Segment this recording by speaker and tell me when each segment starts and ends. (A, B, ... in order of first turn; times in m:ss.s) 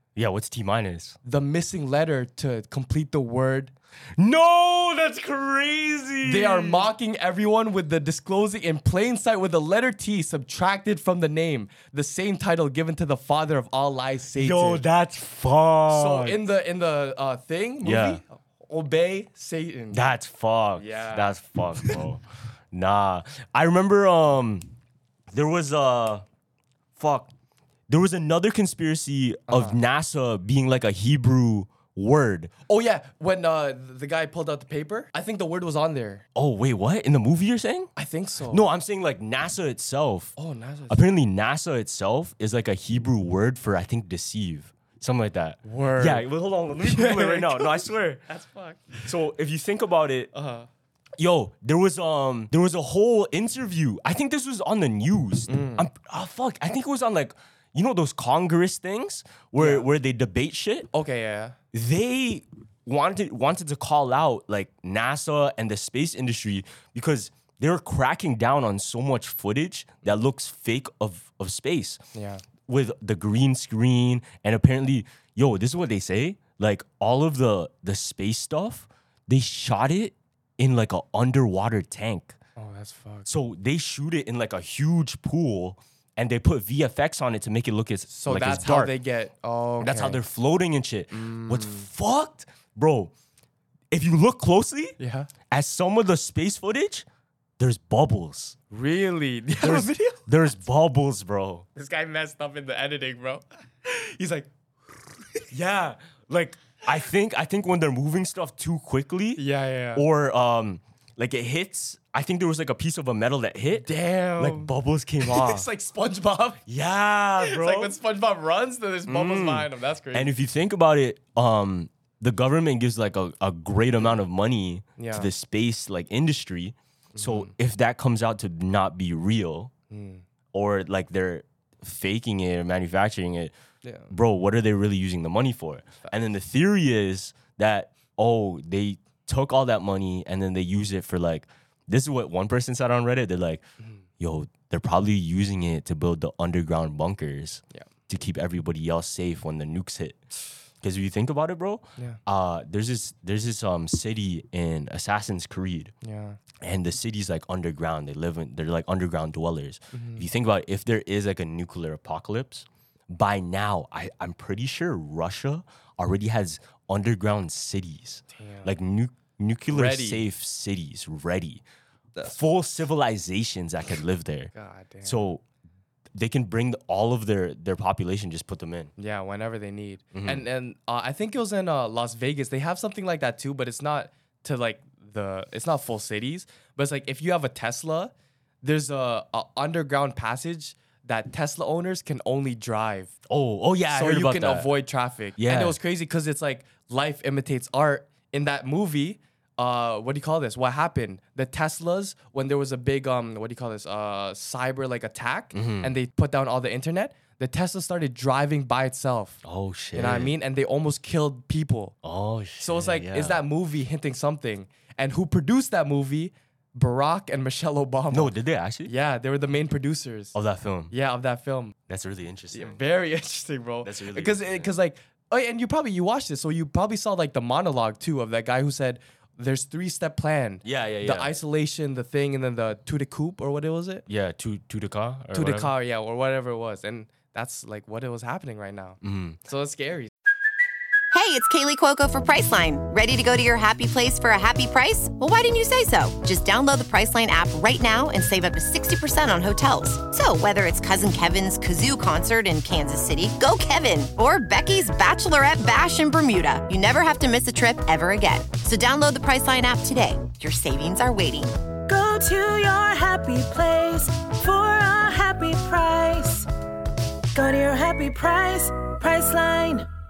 0:00.2-0:01.2 A
0:01.2-0:03.7 B
0:04.2-0:06.9 A
0:06.2-0:14.8 B
0:14.4-0:16.4 A
0:15.9-0:20.0 B
0:17.8-0:18.2 A
0:19.9-0:24.7 A
0:20.8-0:22.0 B
0:25.3-0:26.2 A
0:27.0-0:27.3 A
0:27.9-0:32.5 A
0:29.5-0:29.8 B
0:32.7-0:36.2 B
0:36.3-0:37.9 A
0:38.0-0:38.6 B
0:38.5-0:40.4 A
0:40.4-0:41.0 B
0:40.9-0:48.2 A
0:45.6-0:46.3 B
0:46.8-0:49.1 B
0:49.0-0:50.3 A
0:50.3-0:50.7 B
0:51.2-1:00.9 A
0:55.5-0:55.9 B
0:59.6-0:59.9 B
1:00.9-1:01.6 B
1:01.7-1:12.0 A
1:12.1-1:12.4 B
1:12.6-1:22.4 A
1:22.6-1:23.3 B
1:23.2-1:28.9 A
1:28.1-1:30.2 B
1:29.8-1:33.1 A
1:31.1-1:31.9 B
1:33.9-1:35.0 A
1:35.0-1:35.3 B
1:35.5-1:37.0 A
1:37.6-1:38.6 A
1:38.7-1:40.2 B
1:39.6-1:41.7 A
1:41.7-1:45.4 B
1:45.5-1:55.7 A
1:49.4-1:50.0 B
1:53.8-1:56.6 B
1:56.7-1:58.0 A
1:57.4-2:00.3 B
1:59.1-2:09.7 A
2:05.0-2:05.3 B
2:07.1-2:07.5 B
2:09.9-2:10.2 B
2:10.5-2:13.5 A
2:13.8-2:14.1 B
2:14.1-2:23.6 A
2:24.2-2:30.2 A
2:30.8-2:35.9 A
2:36.0-2:36.4 B
2:36.6-2:51.6 A
2:39.9-2:40.2 B
2:48.3-2:48.7 B
2:49.7-2:50.2 B
2:52.2-2:54.5 A
2:54.5-2:55.2 B
2:55.0-2:55.4 A
2:56.1-2:58.9 A
2:59.0-3:13.1 B
3:00.1-3:00.4 A
3:13.3-3:14.7 A
3:13.9-3:29.4 B
3:15.4-3:15.8 A
3:25.5-3:25.9 A
3:29.4-3:30.3 A
3:29.9-3:31.9 B
3:32.0-3:33.4 A
3:32.6-3:38.3 B
3:38.1-3:38.9 A
3:38.8-3:40.3 B
3:40.3-3:40.9 A
3:40.9-3:41.7 B
3:41.9-3:42.8 A
3:42.5-3:54.0 B
3:43.8-3:44.7 A
3:50.6-3:51.3 A
3:54.1-3:55.7 A
3:55.3-4:00.1 B
3:59.0-3:59.4 A
4:01.1-4:21.6 C
4:21.9-4:26.5 D
4:27.3-4:29.8 D